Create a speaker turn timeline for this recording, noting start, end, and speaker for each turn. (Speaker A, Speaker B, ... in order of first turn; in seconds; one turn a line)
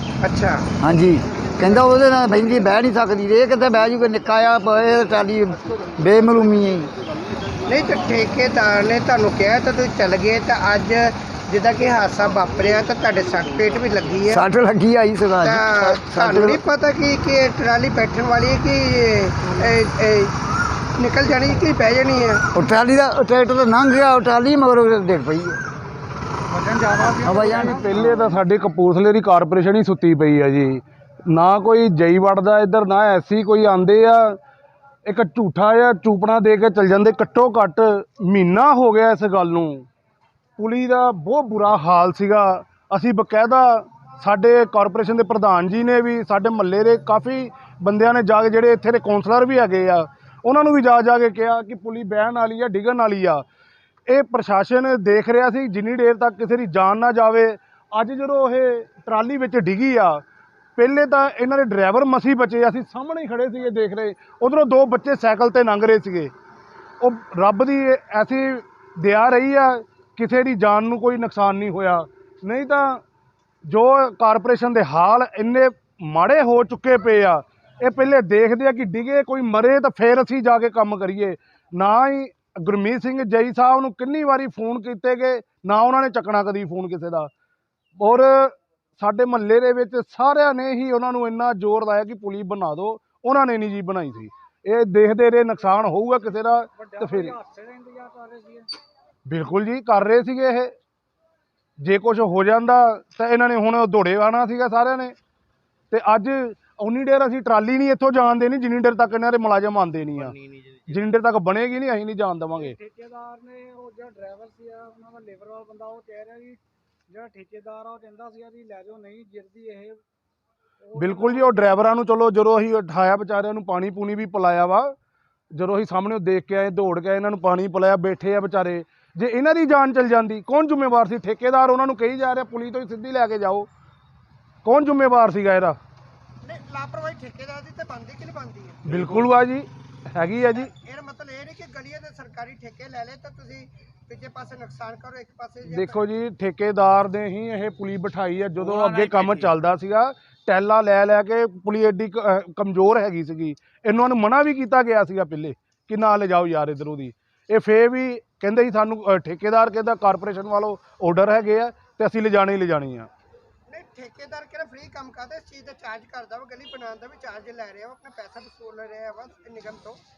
Speaker A: 0.2-0.7
Speaker B: 0.8-6.9
Speaker A: 7.7-14.5
Speaker B: 14.3-16.6
Speaker A: 15.4-20.3
Speaker A: 21.0-22.4
Speaker B: 22.5-25.6
Speaker C: 26.6-27.8
Speaker B: 27.2-27.8
Speaker D: 27.4-34.4
Speaker D: 35.0-39.9
Speaker D: 40.6-53.4
Speaker D: 54.1-60.2
Speaker D: 60.8-66.3
Speaker D: 67.0-73.0
Speaker D: 73.7-87.3
Speaker D: 88.0-97.4
Speaker C: 96.9-98.7
Speaker D: 99.3-100.7
Speaker D: 101.8-105.1
Speaker D: 105.9-112.8
Speaker C: 112.6-120.0
Speaker C: 120.9-121.7
Speaker D: 120.9-124.9
Speaker D: 125.5-133.7
Speaker D: 134.6-135.8
Speaker A: 136.4-139.3
Speaker D: 138.8-140.7
Speaker A: 140.5-146.0
Speaker D: 145.7-163.1
Speaker A: 163.7-170.0